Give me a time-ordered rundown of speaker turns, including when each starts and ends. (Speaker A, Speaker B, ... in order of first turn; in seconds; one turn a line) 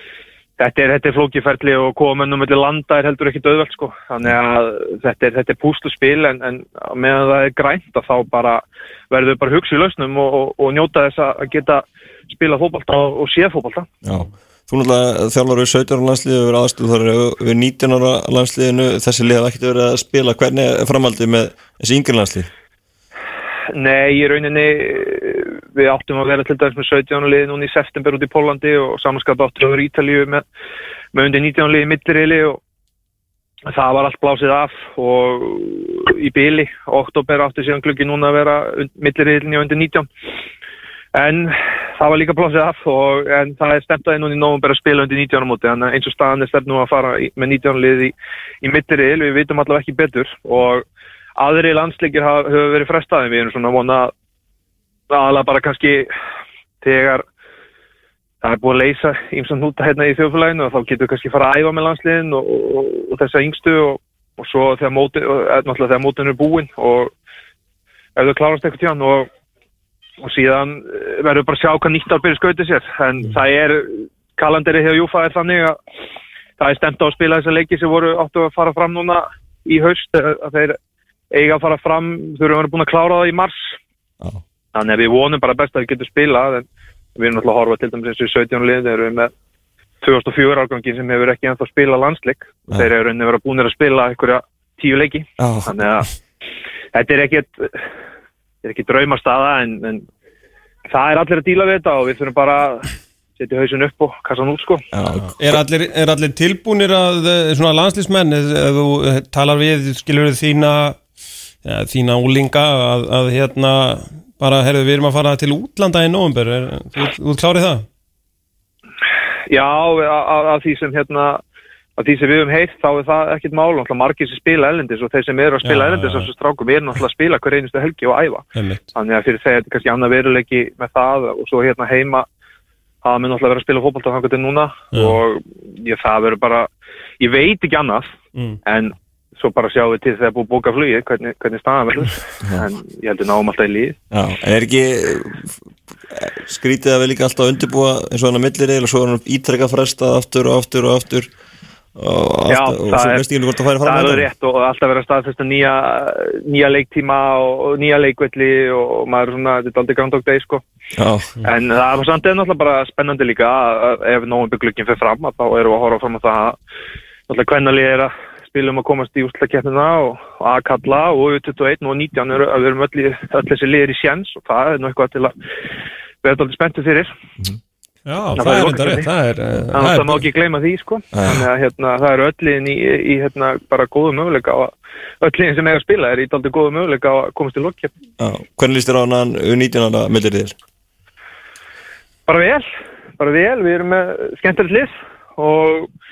Speaker A: 0.6-13.9
Speaker B: 14.0-22.5
Speaker A: 23.7-30.4
Speaker A: 31.1-32.6
Speaker A: 33.7-40.1
Speaker A: 41.1-50.8
Speaker A: 51.4-54.1
Speaker A: 55.1-56.1
Speaker A: 56.8-57.2
Speaker A: 58.4-67.1
Speaker A: 68.2-69.3
Speaker A: 70.2-75.8
Speaker A: 76.6-80.8
Speaker A: 81.3-83.8
Speaker A: 84.7-89.3
Speaker A: 90.0-96.1
Speaker B: 95.4-95.8
Speaker A: 96.9-97.8
Speaker A: 98.6-100.0
Speaker A: 100.9-104.8
Speaker B: 104.9-105.6
Speaker C: 105.4-111.0
Speaker C: 111.6-117.8
Speaker A: 119.5-121.4
Speaker A: 122.0-132.2
Speaker C: 125.6-126.3
Speaker C: 128.5-128.8
Speaker A: 133.0-136.7
Speaker C: 134.9-135.2
Speaker A: 137.2-138.1
Speaker A: 138.6-144.0
Speaker B: 144.1-145.5
Speaker B: 146.1-151.3
Speaker B: 151.9-154.3
Speaker A: 152.5-153.2
Speaker A: 153.8-160.6
Speaker B: 161.0-161.3
Speaker A: 161.4-166.6
Speaker A: 167.3-175.3
Speaker A: 176.2-177.1
Speaker C: 178.1-180.3
Speaker A: 178.3-179.1
Speaker A: 179.7-187.9
Speaker B: 181.1-181.4
Speaker B: 188.2-190.5
Speaker A: 192.3-192.7
Speaker A: 193.2-195.9